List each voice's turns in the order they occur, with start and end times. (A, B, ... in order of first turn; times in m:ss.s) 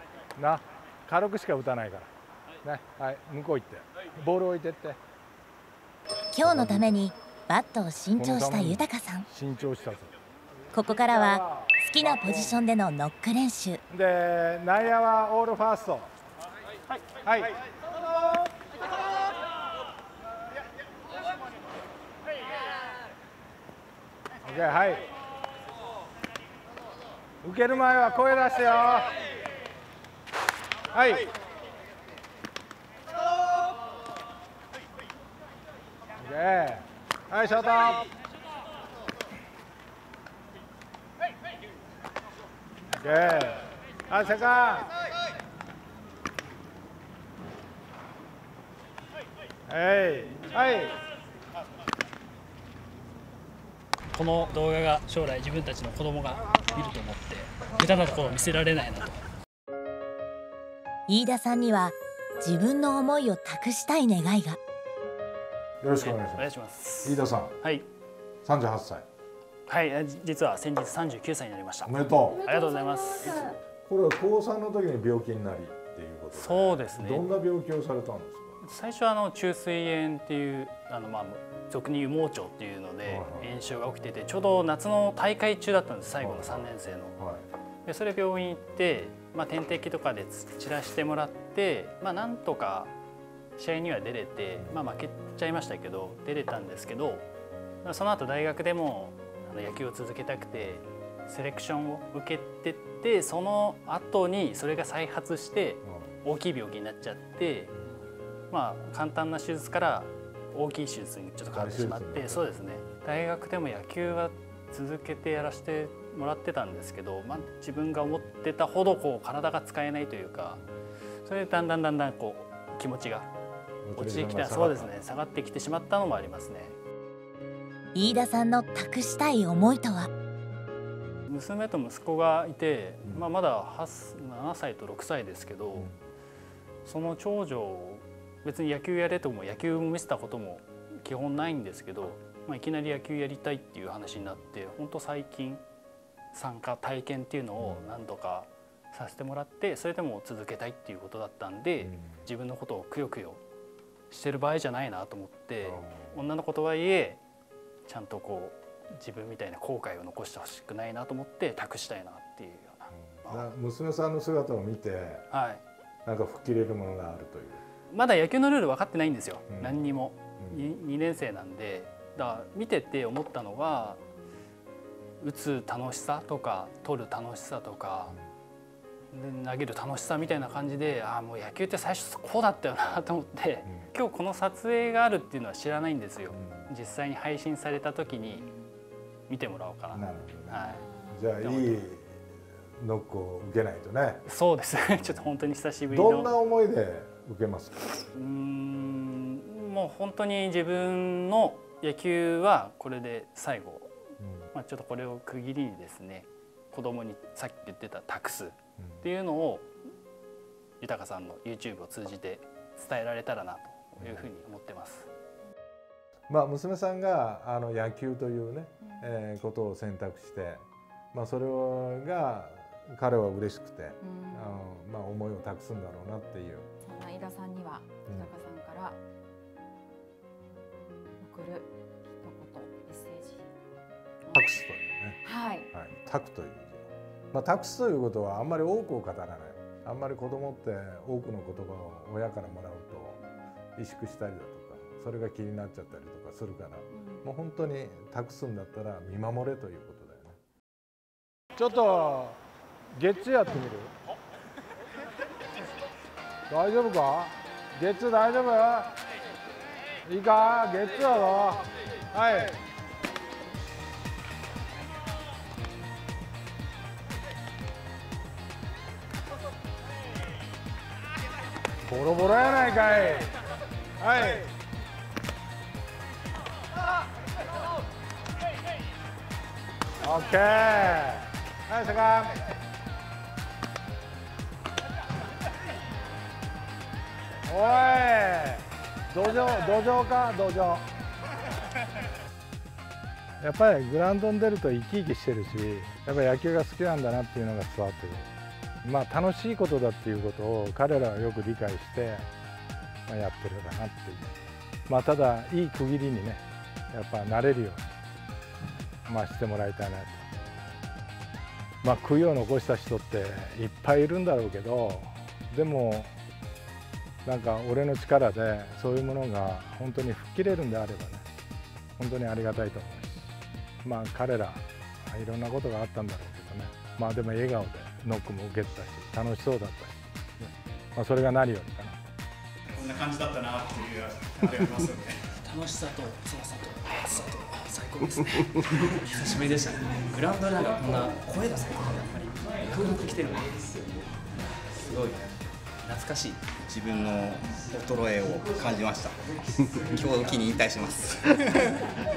0:00.4-0:02.1 A
0:02.6-0:05.0 A
0:06.3-0:09.2 B
0:06.4-0:07.0 A
0:08.2-0:10.1 A
0:10.7-0:13.8 B
0:11.2-0:12.6 A
0:13.9-0:16.1 A
0:17.2-0:17.5 A
0:24.4-0:25.1 A
0:27.4-0:29.1 A
0:30.9-0:31.3 A
0:36.2-0:38.1 A
0:43.0-0:44.9 A
0:49.7-0:51.0 A
0:54.1-0:59.2 C
1:01.1-1:04.6 B
1:05.8-1:06.5 A
1:06.0-1:07.9 C
1:07.0-1:07.6 A
1:08.4-1:09.1 A
1:09.7-1:13.4 C
1:11.8-1:12.4 A
1:12.3-1:13.6 D
1:13.9-1:18.6 A
1:16.3-1:17.3 C
1:18.6-1:27.2 C
1:23.0-1:23.5 A
1:26.2-1:27.4 A
1:27.9-1:32.9 C
1:33.6-1:37.3 C
1:37.8-1:47.7 C
1:45.8-1:46.1 A
1:48.5-2:00.6 C
1:51.5-1:52.5 A
2:01.2-2:03.3 C
2:03.8-2:05.0 A
2:04.0-2:06.8 C
2:08.0-2:10.1 B
2:11.3-2:15.9 C
2:13.0-2:13.3 A
2:15.8-2:16.0 A
2:16.8-2:25.6 C
2:26.3-2:33.4 C
2:27.6-2:28.0 A
2:31.8-2:32.3 A
2:34.1-2:37.2 C
2:35.6-2:36.2 A
2:37.9-2:43.5 C
2:42.9-2:45.3 A
2:45.3-2:45.6 C
2:46.0-2:47.6 A
2:47.9-2:54.0 C
2:49.5-2:49.8 A
2:50.4-2:50.7 A
2:55.2-2:58.2 C
2:59.1-3:08.5 C
3:03.6-3:03.9 A
3:06.3-3:06.7 A
3:09.3-3:11.9 C
3:09.9-3:12.2 A
3:12.8-3:14.2 A
3:14.3-3:16.4 C
3:15.9-3:18.0 A
3:18.2-3:24.0 C
3:24.2-3:24.5 A
3:24.6-3:29.7 C
3:28.8-3:29.1 A
3:30.8-3:35.1 C
3:34.0-3:34.3 A
3:36.3-3:46.7 A
3:38.8-3:39.1 D
3:44.0-3:44.6 D
3:46.8-3:49.0 D
3:51.2-3:53.5 D
3:54.3-3:55.2 A
3:55.2-3:55.7 D
3:55.7-4:03.2 A
4:03.8-4:10.4 A
4:11.6-4:12.4 A
4:12.9-4:13.9 A
4:16.5-4:18.9 A
4:20.0-4:22.6 A
4:31.9-4:33.3 A
4:34.0-4:34.5 A
4:40.0-4:42.3 A
4:47.5-4:50.8 A
4:53.4-4:58.3 A
4:58.8-5:02.3 A
5:03.1-5:04.4 A
5:04.9-5:07.9 A
5:09.1-5:10.3 A
5:11.8-5:16.1 A
5:17.2-5:21.3 A
5:22.0-5:23.3 A
5:23.8-5:32.0 A
5:32.9-5:34.9 E
5:35.4-5:38.6 C
5:39.1-5:43.6 F
5:42.6-5:43.2 E
5:44.9-5:45.2 F
5:45.9-5:46.4 F
5:46.6-5:49.2 G
5:49.8-5:51.4 G